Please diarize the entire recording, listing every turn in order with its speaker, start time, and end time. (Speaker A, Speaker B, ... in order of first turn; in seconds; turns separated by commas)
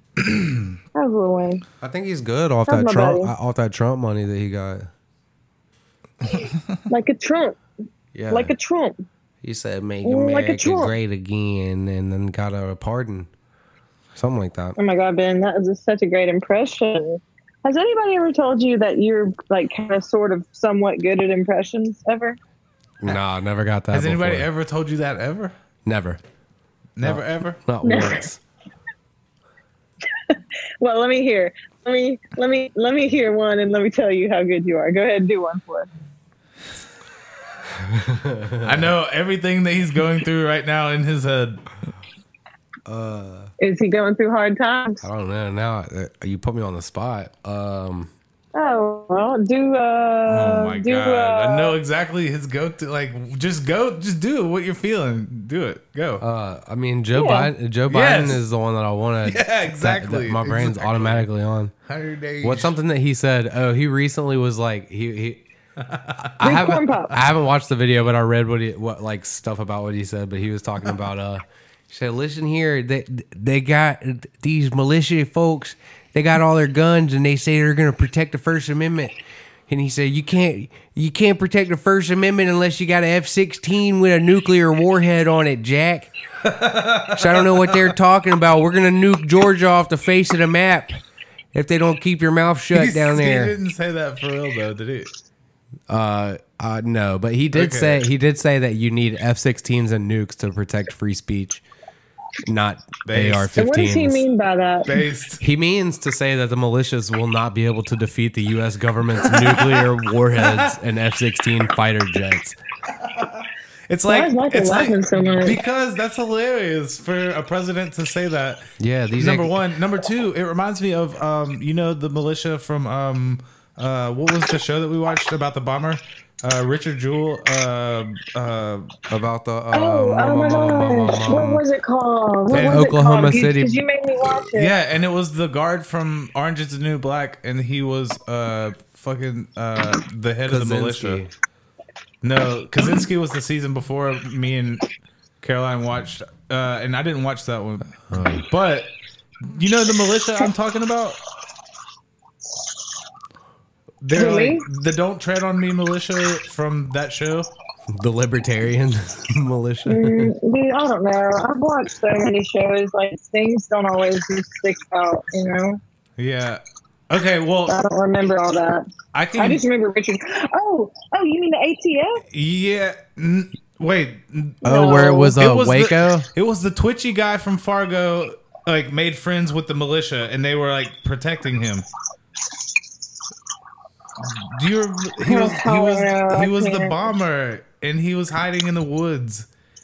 Speaker A: 0.2-0.8, Speaker B: 0.9-1.6, Speaker C: 1.8-4.9, Speaker B: 2.7-3.3, Speaker A: 6.2-6.6, Speaker B: 6.9-7.6, Speaker C: 8.1-8.5, Speaker B: 8.3-9.1, Speaker C: 9.4-13.3, Speaker B: 10.0-10.9, Speaker C: 14.2-14.8, Speaker B: 14.8-22.4, Speaker C: 23.0-24.5, Speaker A: 23.9-25.5, Speaker C: 25.9-26.2, Speaker A: 27.0-27.6, Speaker C: 27.0-28.4, Speaker B: 27.8-28.2, Speaker B: 30.3-35.9, Speaker C: 37.7-38.9, Speaker A: 38.6-41.6, Speaker C: 42.9-43.5, Speaker B: 43.6-45.0, Speaker C: 45.0-48.1, Speaker B: 48.5-51.8, Speaker A: 50.3-56.2, Speaker C: 56.2-61.7, Speaker B: 57.1-57.5, Speaker A: 57.9-58.4, Speaker A: 59.2-61.3, Speaker A: 61.9-62.7, Speaker C: 62.4-65.4, Speaker A: 65.8-66.7, Speaker C: 66.2-79.2, Speaker B: 66.4-67.2, Speaker C: 79.7-86.1, Speaker A: 86.5-87.9, Speaker C: 87.1-91.0, Speaker C: 91.5-93.5, Speaker A: 92.7-95.1, Speaker C: 95.9-101.6, Speaker A: 97.5-98.1, Speaker C: 102.5-104.2, Speaker A: 103.1-103.6, Speaker B: 103.6-105.0, Speaker A: 104.9-105.4, Speaker C: 105.4-112.6, Speaker A: 109.3-109.8, Speaker A: 110.4-110.8, Speaker A: 113.0-118.7, Speaker B: 114.1-115.6, Speaker C: 118.8-119.6, Speaker A: 119.2-128.9, Speaker C: 129.1-131.6, Speaker B: 129.7-134.7, Speaker C: 132.5-133.8, Speaker A: 132.5-132.9, Speaker A: 134.6-141.2, Speaker C: 140.5-141.3, Speaker A: 142.2-144.8, Speaker A: 145.4-151.2, Speaker C: 148.1-148.5, Speaker A: 154.0-157.5, Speaker B: 154.1-154.7, Speaker C: 157.9-160.3, Speaker B: 159.9-165.8, Speaker A: 166.2-167.8, Speaker B: 167.7-168.9, Speaker A: 169.1-169.6, Speaker B: 169.4-172.2, Speaker A: 172.3-181.9, Speaker B: 174.6-175.4, Speaker C: 174.6-176.3, Speaker A: 184.2-189.5, Speaker B: 185.2-187.1